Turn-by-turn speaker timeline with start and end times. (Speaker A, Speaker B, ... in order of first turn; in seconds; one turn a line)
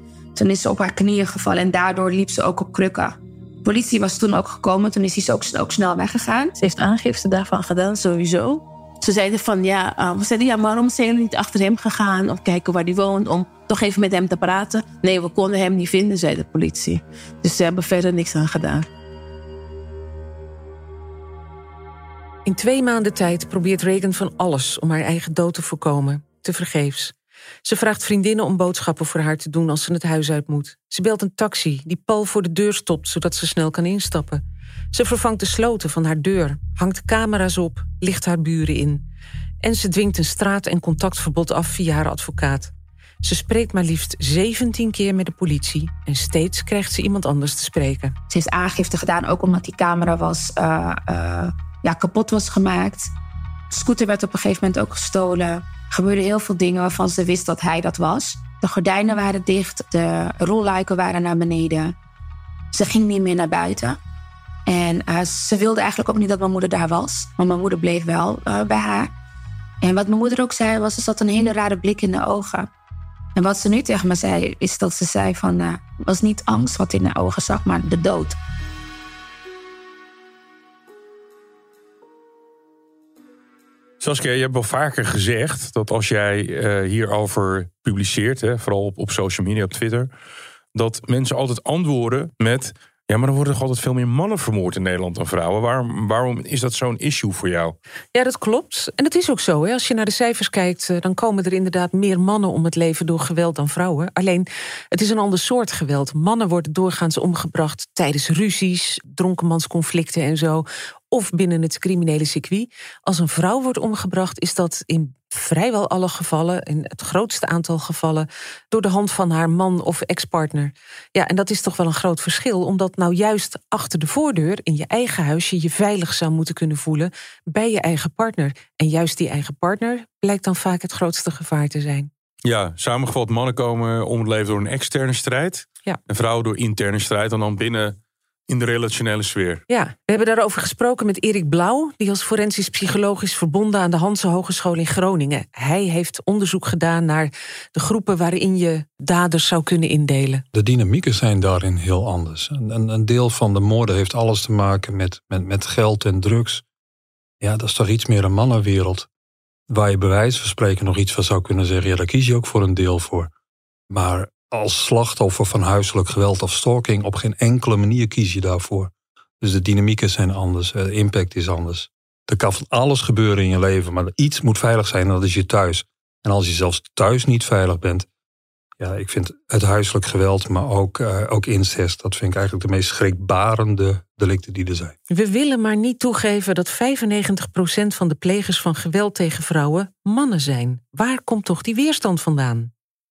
Speaker A: 0.3-6.5
Speaker B: 6.6-18.9
Speaker C: 22.4-27.1
Speaker C: 27.6-34.4
Speaker C: 34.9-39.0
Speaker C: 39.6-42.7
Speaker C: 43.2-48.1
Speaker A: 48.3-53.1
Speaker A: 53.7-61.9
Speaker A: 62.7-64.0
Speaker A: 64.7-69.1
Speaker A: 69.8-72.7
Speaker A: 73.3-78.4
Speaker D: 84.0-90.1
Speaker D: 90.7-97.8
Speaker C: 98.1-132.1
Speaker D: 132.4-137.9
Speaker D: 138.5-139.6
Speaker C: 139.7-150.4
Speaker E: 150.5-156.6
Speaker E: 157.4-159.1
Speaker E: 159.7-163.3
Speaker E: 163.9-178.1
Speaker E: 178.8-184.9
Speaker C: 185.1-192.7